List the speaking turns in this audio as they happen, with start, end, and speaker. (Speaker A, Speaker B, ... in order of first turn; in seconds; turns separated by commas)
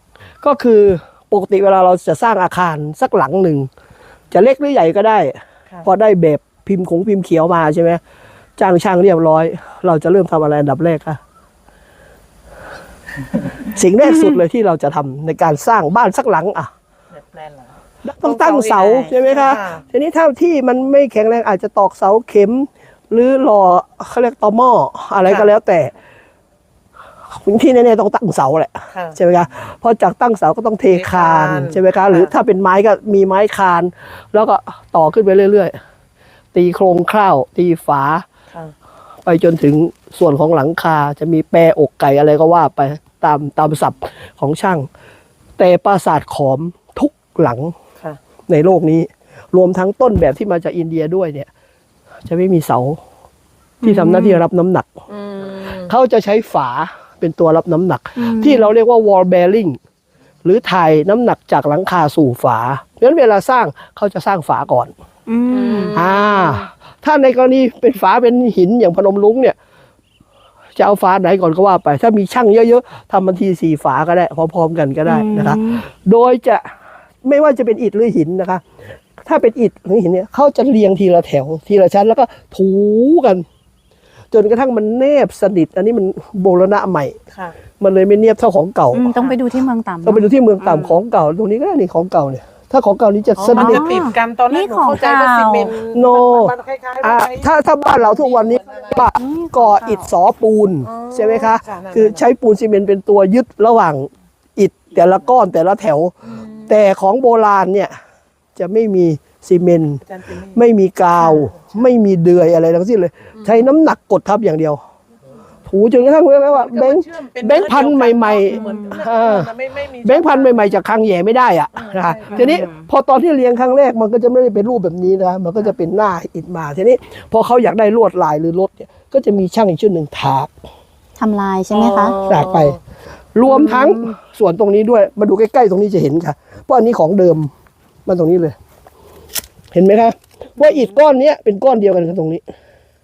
Speaker A: 0.4-3.7, Speaker A: 4.3-8.0, Speaker A: 8.6-11.2, Speaker A: 13.6-16.7, Speaker B: 17.1-19.8, Speaker A: 18.0-25.9, Speaker B: 25.2-25.5, Speaker A: 27.3-35.8, Speaker B: 28.9-29.2, Speaker B: 30.9-32.3, Speaker A: 36.5-38.2, Speaker A: 39.3-44.9, Speaker A: 45.6-47.8, Speaker A: 48.5-51.5, Speaker A: 52.2-53.0, Speaker C: 53.8-54.4, Speaker A: 53.8-54.9, Speaker B: 55.1-55.9, Speaker A: 55.9-59.8, Speaker C: 58.2-58.7, Speaker A: 60.5-64.9, Speaker C: 65.3-66.0, Speaker B: 65.5-66.7, Speaker A: 66.0-69.6, Speaker A: 70.8-76.7, Speaker C: 75.1-75.8, Speaker A: 77.2-78.6, Speaker A: 79.2-83.5, Speaker A: 84.3-87.2, Speaker A: 87.8-89.1, Speaker C: 88.9-91.0, Speaker A: 90.0-93.9, Speaker B: 93.4-99.1, Speaker C: 93.5-95.7, Speaker A: 95.9-106.1, Speaker C: 99.0-100.1, Speaker B: 100.8-102.2, Speaker B: 106.2-106.8, Speaker A: 106.7-108.0, Speaker A: 108.6-110.0, Speaker B: 110.0-110.6, Speaker A: 110.5-114.8, Speaker B: 113.4-113.7, Speaker A: 115.7-119.5, Speaker B: 116.5-120.8, Speaker C: 118.6-118.9, Speaker A: 120.0-130.5, Speaker B: 121.7-122.6, Speaker C: 122.4-122.8, Speaker C: 131.2-132.2, Speaker B: 131.7-132.8, Speaker A: 132.3-132.8, Speaker A: 133.3-137.5, Speaker C: 133.5-134.0, Speaker A: 138.1-138.6, Speaker A: 139.7-142.4